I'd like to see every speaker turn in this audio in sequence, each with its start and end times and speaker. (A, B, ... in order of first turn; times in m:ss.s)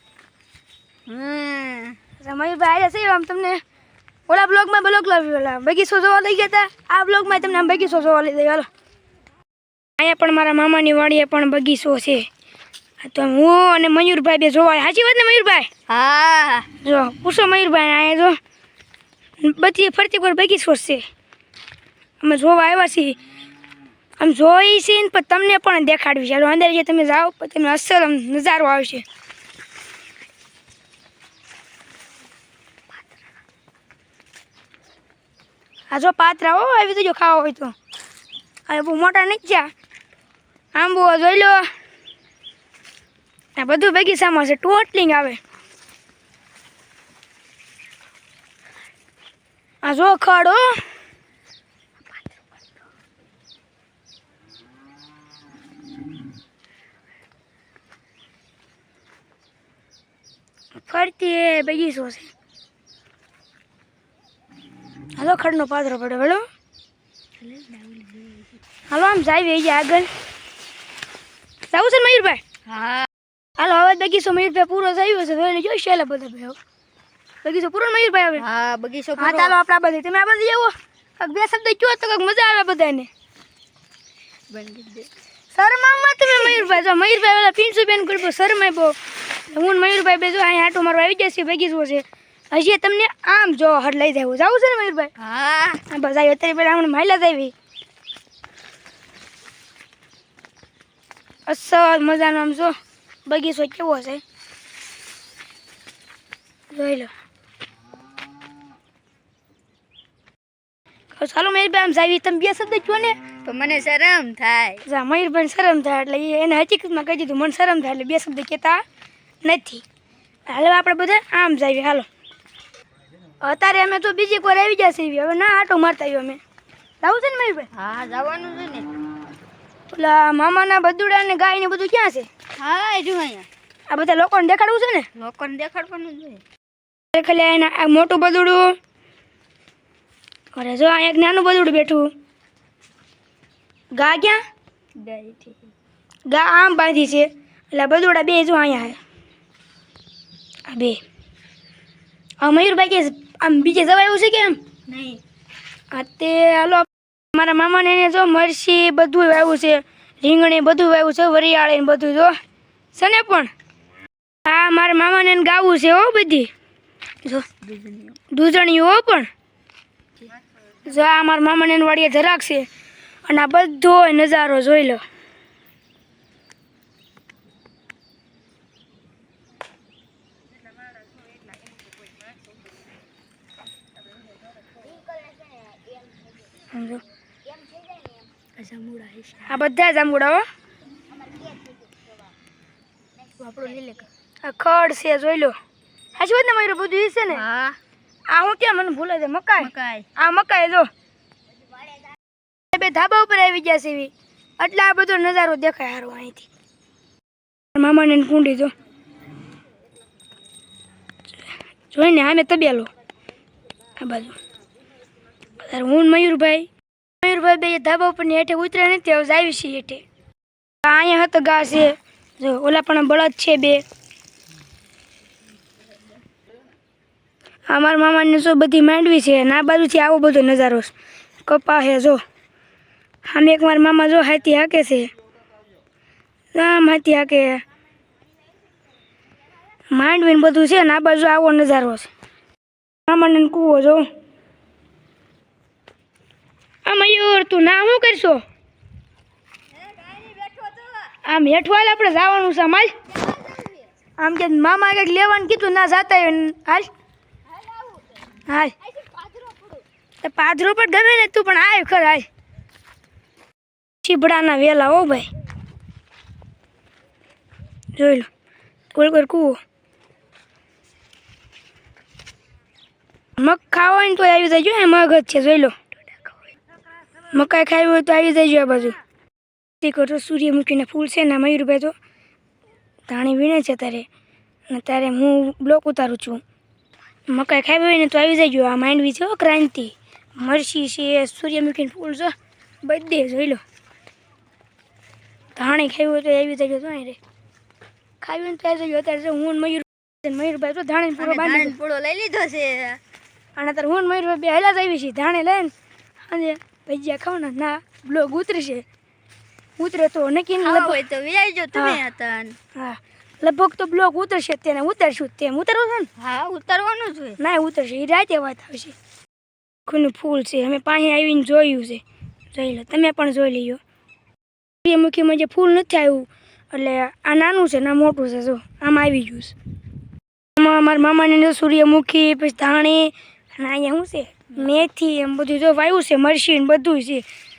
0:01.1-0:02.0 A
0:02.2-0:03.6 B
0:04.3-0:08.6 B
0:10.0-0:12.3 B
0:13.0-0:15.7 B
0:15.9-0:16.7 A
0:16.8-0:18.4 B
0:19.4-0:21.0 B
0:22.2-0:23.2 B
0:24.2-0:29.0 B
0:35.9-0:37.7 B
0:38.7-0:39.7 B
0:40.7-0:41.6 B
0:43.6-0:45.4 B
0:49.8-0:50.8 B
1:00.7-1:02.3 B
1:05.2-1:06.5 B
1:07.4-1:08.5 A
1:08.9-1:10.1 B
1:11.7-1:12.4 B
1:12.6-1:13.1 A
1:13.6-1:16.6 B
1:17.4-1:18.4 B
1:18.4-1:19.6 A
1:19.2-1:23.1 B
1:24.5-1:25.1 A
1:25.5-1:28.9 B
1:29.5-1:35.1 B
1:35.2-1:35.8 A
1:35.9-1:37.5 B
1:41.5-1:42.7 B
1:43.3-1:44.2 B
1:46.7-1:47.1 B
1:51.1-1:53.2 B
1:53.4-1:54.8 A
1:54.8-1:58.8 B
1:59.4-1:59.8 B
2:00.5-2:02.1 B
2:03.4-2:06.4 B
2:07.0-2:07.7 B
2:07.7-2:08.9 A
2:09.9-2:12.3 B
2:12.6-2:13.5 A
2:13.9-2:15.1 B
2:15.2-2:16.4 A
2:17.1-2:18.8 B
2:20.5-2:22.1 B
2:23.9-2:24.4 B
2:25.0-2:25.6 A
2:26.3-2:29.0 B
2:30.7-2:31.0 B
2:32.4-2:34.6 B
2:34.9-2:35.2 A
2:35.9-2:42.3 B
2:42.9-2:43.5 B
2:44.4-2:46.5 B
2:47.6-2:48.2 A
2:48.3-2:49.3 B
2:50.8-2:52.7 B
2:53.2-2:55.0 B
3:06.7-3:07.0 B
3:08.6-3:09.4 A
3:09.4-3:10.4 B
3:13.4-3:15.5 B
3:13.5-3:13.9 A
3:16.2-3:17.4 B
3:17.3-3:17.8 A
3:18.3-3:20.9 B
3:19.6-3:20.1 A
3:22.7-3:26.5 B
3:27.7-3:28.7 B
3:31.9-3:32.9 B
3:34.0-3:34.4 B
3:35.6-3:36.7 B
3:37.2-3:40.0 B
3:40.8-3:43.8 B
3:47.7-3:50.9 B
3:51.4-3:52.2 B
3:53.2-3:55.1 B
3:56.5-3:57.6 B
3:59.9-4:02.1 B
4:03.1-4:04.1 B
4:06.8-4:08.4 B
4:09.9-4:11.0 A
4:11.2-4:12.9 B
4:13.1-4:13.8 A
4:14.2-4:16.9 B
4:18.4-4:18.7 B
4:19.0-4:19.8 A
4:20.2-4:22.2 B
4:24.0-4:25.3 B
4:28.0-4:28.3 B
4:28.9-4:29.6 B
4:33.4-4:35.7 B
4:37.3-4:39.0 B
4:39.8-4:41.9 B
4:43.1-4:44.0 B
4:44.7-4:46.4 B
4:47.3-4:53.6 B
4:55.6-4:57.2 B
4:58.2-5:01.8 B
5:01.2-5:03.0 A
5:03.6-5:05.7 B
5:06.3-5:08.8 B
5:09.8-5:11.0 B
5:10.6-5:12.6 A
5:11.7-5:12.0 B
5:12.7-5:16.1 B
5:16.2-5:17.4 A
5:17.4-5:18.9 B
5:19.9-5:22.0 B
5:22.5-5:23.8 B
5:24.8-5:29.5 B
5:30.6-5:37.2 B